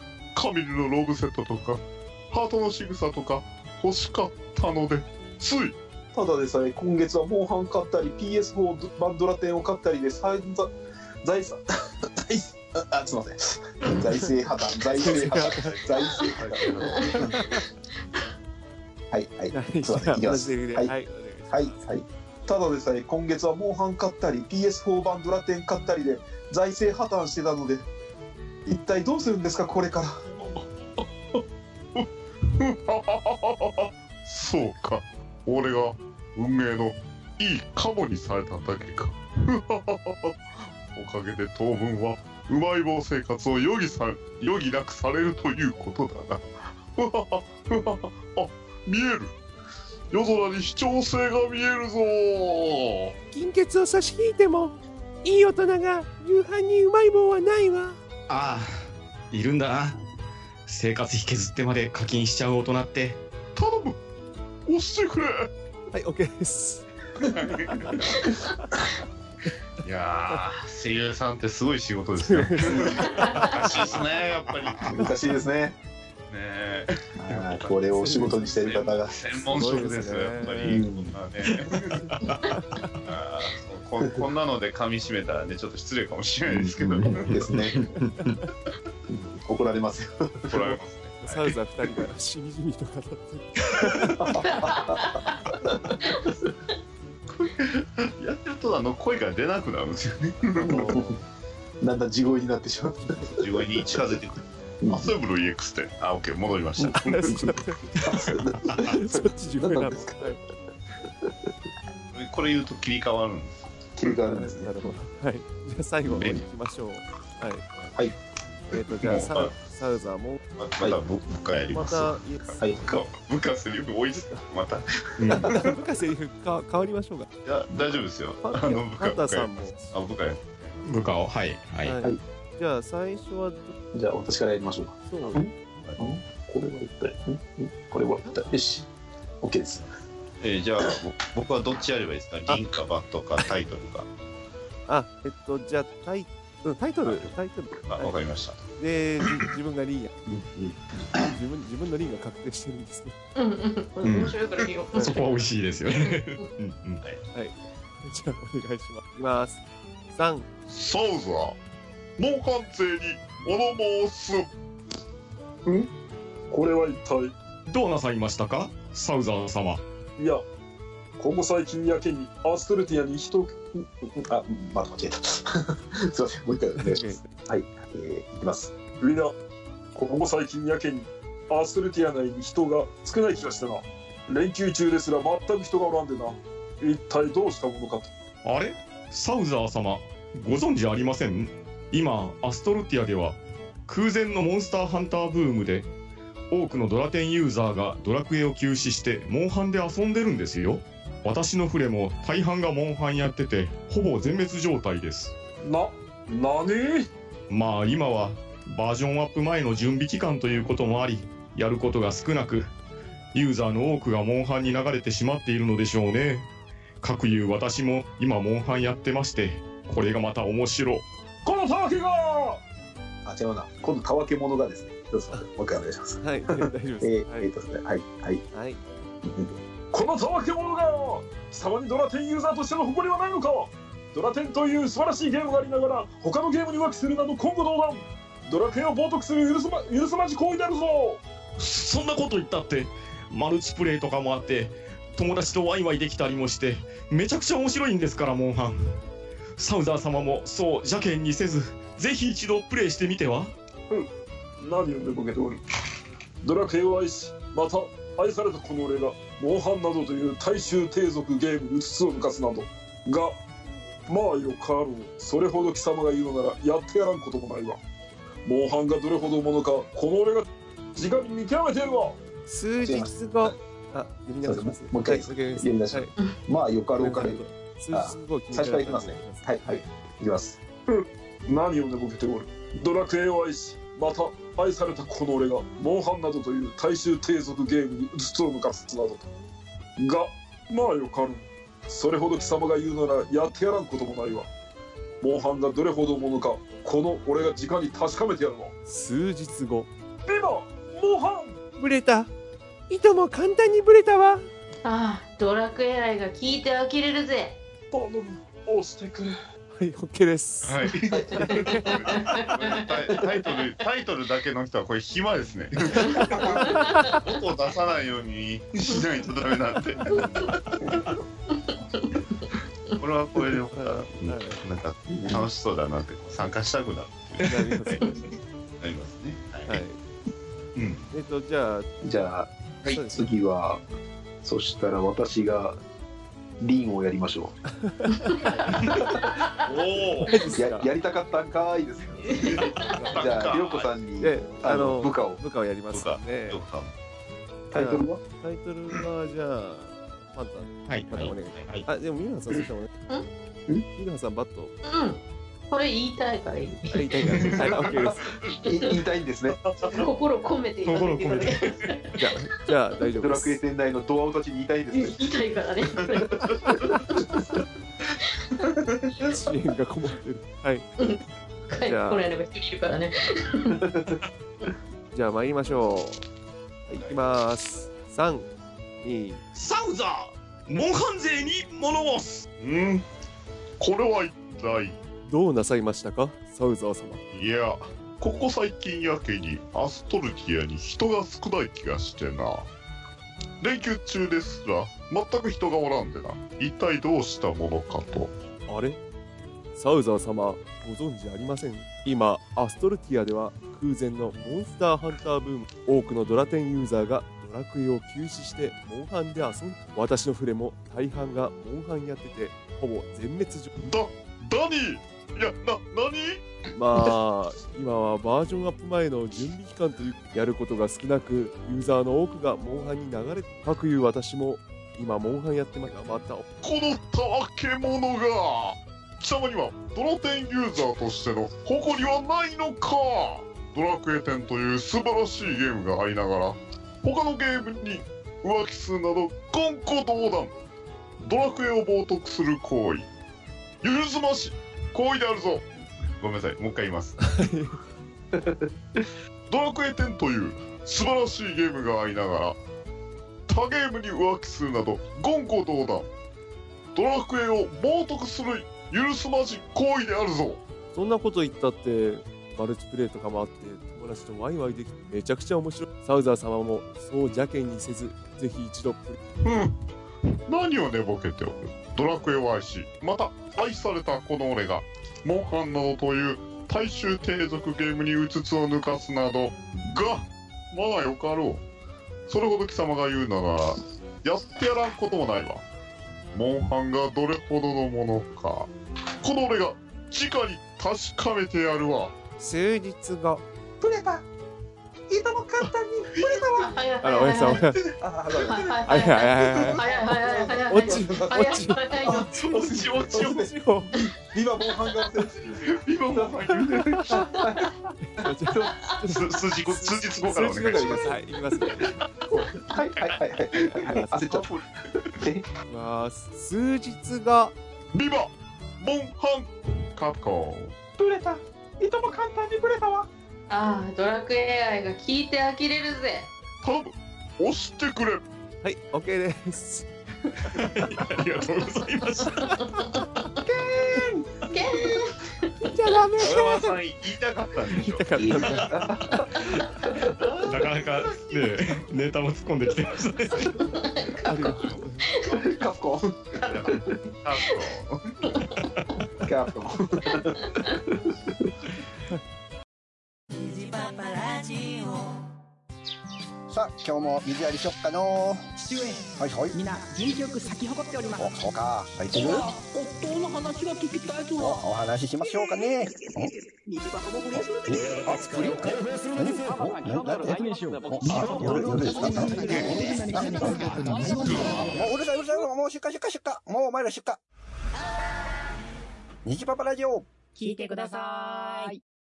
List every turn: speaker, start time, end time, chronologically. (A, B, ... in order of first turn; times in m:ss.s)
0:00.4-0:05.8 A
0:06.1-0:17.3 B
0:15.0-0:15.8 C
0:15.0-0:17.2 D
0:16.0-0:17.6 E
0:17.3-0:17.6 C
0:19.1-0:21.0 B
0:19.5-0:22.0 C
0:21.5-0:27.9 B
0:28.7-0:30.2 B
0:30.5-0:31.4 A
0:32.0-0:49.4 A
0:50.1-0:53.1 A
0:53.3-0:58.0 C
0:58.3-1:00.0 F
1:00.7-1:03.2 F
1:03.6-1:04.0 A
1:04.7-1:05.5 A
1:05.9-1:06.9 C
1:07.3-1:08.0 D
1:07.5-1:08.1 C
1:09.8-1:15.1 D
1:12.2-1:14.0 C
1:13.0-1:13.6 E
1:14.9-1:15.8 B
1:16.3-1:17.8 D
1:17.2-1:20.0 B
1:17.9-1:18.7 C
1:18.5-1:22.0 D
1:19.5-1:20.8 C
1:20.7-1:21.2 B
1:22.5-1:22.8 C
1:23.1-1:27.5 D
1:26.9-1:28.4 F
1:27.0-1:27.8 B
1:29.1-1:30.8 B
1:30.5-1:31.6 D
1:31.2-1:34.2 C
1:34.2-1:35.2 B
1:34.4-1:35.4 E
1:36.0-1:36.3 E
1:37.4-1:41.0 D
1:40.6-1:41.2 C
1:40.6-1:41.2 B
1:41.8-1:44.0 B
1:43.3-1:47.4 D
1:44.8-1:45.1 B
1:46.8-1:50.3 B
1:47.0-1:48.3 C
1:48.8-1:50.4 C
1:51.0-1:51.5 B
1:52.1-1:53.9 D
1:54.0-1:54.8 B
1:54.3-1:57.6 C
1:56.1-1:56.4 D
1:58.7-2:00.4 C
1:59.0-1:59.5 D
2:00.6-2:04.9 D
2:01.7-2:02.7 C
2:02.6-2:03.0 B
2:05.2-2:05.6 F
2:05.5-2:07.3 C
2:07.4-2:10.8 D
2:08.4-2:10.0 C
2:10.8-2:12.0 F
2:11.8-2:13.8 C
2:13.9-2:18.9 B
2:15.1-2:15.5 C
2:19.4-2:19.9 B
2:20.4-2:24.1 D
2:24.9-2:28.2 C
2:27.0-2:28.6 D
2:28.8-2:30.1 C
2:31.2-2:33.2 C
2:33.4-2:35.4 E
2:34.0-2:34.4 F
2:35.0-2:37.0 F
2:36.0-2:36.5 E
2:37.3-2:40.5 C
2:40.7-2:41.6 A
2:42.2-2:44.5 A
2:46.5-2:47.3 G
2:47.7-2:49.8 F
2:50.2-2:50.4 G
2:51.2-2:53.6 G
2:53.8-2:58.8 B
2:56.8-2:57.3 C
2:59.0-2:59.4 G
3:00.0-3:08.1 G
3:08.4-3:15.9 F
3:16.5-3:25.3 F
3:25.6-3:27.1 G
3:27.5-3:32.7 F
3:33.3-3:36.5 F
3:37.0-3:41.0 F
3:41.4-3:42.6 G
3:43.2-3:48.4 B
3:46.2-3:47.5 C
3:48.5-3:48.8 C
3:49.2-3:49.5 B
3:49.9-4:01.2 G
4:01.6-4:09.0 F
4:09.6-4:13.6 F
4:14.6-4:15.6 G
4:16.4-4:23.4 G
4:24.1-4:27.8 G
4:28.4-4:32.2 G
4:32.5-4:36.1 C
4:32.8-4:33.6 B
4:34.4-4:40.6 B
4:37.0-4:39.9 C
4:40.9-4:49.3 G
4:50.0-4:54.5 G
4:55.2-4:58.7 G
4:58.9-4:59.9 C
5:00.3-5:01.6 G
5:01.8-5:02.3 C
5:02.9-5:04.5 C
5:04.8-5:07.6 E
5:07.9-5:09.4 G
5:09.8-5:12.0 C
5:10.6-5:20.1 D
5:11.1-5:13.6 E
5:15.9-5:17.0 C
5:16.0-5:17.3 E
5:20.1-5:20.5 E
5:21.7-5:22.0 E
5:23.0-5:28.0 D
5:23.7-5:24.6 C
5:25.1-5:25.5 B
5:27.4-5:28.2 C
5:28.8-5:29.8 D
5:29.7-5:30.0 C
5:30.8-5:31.0 D
5:31.1-5:31.9 C
5:32.0-5:33.8 B
5:32.8-5:33.3 C
5:34.4-5:35.8 B
5:36.6-5:37.6 B
5:37.7-5:39.0 C
5:38.2-5:39.7 E
5:39.7-5:40.3 D
5:40.2-5:40.9 C
5:40.6-5:45.4 B
5:42.3-5:43.0 E
5:42.5-5:43.9 D
5:42.9-5:43.6 C
5:44.2-5:46.6 C
5:45.9-5:46.9 D
5:47.7-5:48.2 B
5:47.7-5:52.9 C
5:50.9-5:51.9 F
5:54.0-5:54.7 C
5:54.8-5:57.6 E
5:56.9-5:58.2 C
5:58.6-5:59.6 B
5:58.7-5:59.0 E
5:59.9-6:02.2 E
6:00.8-6:01.9 F
6:02.2-6:03.6 C
6:03.2-6:05.2 B
6:04.9-6:07.4 E
6:09.2-6:10.9 C
6:11.0-6:13.8 E
6:11.8-6:12.2 C
6:13.8-6:14.2 B
6:15.1-6:16.2 C
6:16.9-6:19.4 C
6:19.5-6:22.5 F
6:22.6-6:23.0 A
6:23.8-6:25.0 A
6:25.3-6:27.2 C
6:27.3-6:32.7 A
6:33.6-6:38.3 A
6:38.7-6:39.0 C
6:39.8-6:53.7 C
6:53.8-6:56.4 A
6:56.8-7:06.5 C
7:06.6-7:20.6 A
7:21.2-7:23.1 A
7:23.8-7:25.6 A
7:26.1-7:27.2 D
7:27.2-7:27.8 C
7:28.4-7:29.1 B
7:29.5-7:32.6 A
7:33.5-7:36.1 A
7:37.0-7:40.6 A
7:40.9-7:49.2 C
7:49.4-7:49.8 A
7:50.5-8:01.6 A
8:02.3-8:05.6 A
8:06.3-8:08.7 A
8:09.2-8:12.1 A
8:12.4-8:13.4 C
8:13.8-8:14.2 B
8:15.1-8:16.7 B
8:16.5-8:17.7 E
8:17.0-8:17.8 C
8:17.5-8:28.8 B
8:18.3-8:22.3 E
8:18.8-8:19.8 C
8:20.7-8:22.2 C
8:22.5-8:23.3 D
8:23.1-8:23.9 C
8:25.6-8:26.9 D
8:26.7-8:27.3 C
8:28.0-8:31.9 C
8:29.1-8:31.1 D
8:32.3-8:34.6 B
8:33.6-8:34.4 C
8:35.2-8:35.5 B
8:35.7-8:37.6 C
8:37.9-8:40.8 A
8:41.0-8:43.1 B
8:43.5-8:46.3 E
8:46.6-8:48.2 A
8:48.6-8:49.9 C
8:50.5-8:52.6 F
8:52.4-8:53.0 E
8:53.4-8:54.2 B
8:54.5-8:55.7 E
8:55.7-8:56.8 C
8:56.2-8:58.7 D
8:57.8-8:59.6 C
8:58.2-8:59.3 B
9:00.2-9:01.6 D
9:00.5-9:03.6 F
9:03.6-9:05.4 E
9:04.2-9:05.0 C
9:04.5-9:05.5 D
9:05.4-9:06.8 B
9:06.4-9:08.1 D
9:06.4-9:06.7 E
9:07.4-9:07.6 E
9:09.2-9:10.4 B
9:13.4-9:15.2 H
9:16.5-9:18.5 I
9:18.7-9:19.0 J
9:19.1-9:19.6 I
9:19.6-9:21.3 J
9:20.5-9:21.0 H
9:21.2-9:22.5 I
9:22.1-9:24.7 J
9:24.4-9:26.3 I
9:25.3-9:34.8 J
9:27.6-9:30.4 I
9:30.9-9:37.2 I
9:33.6-9:34.4 F
9:34.3-9:34.7 D
9:39.2-9:40.1 I
9:40.4-9:41.8 J
9:40.6-9:40.8 H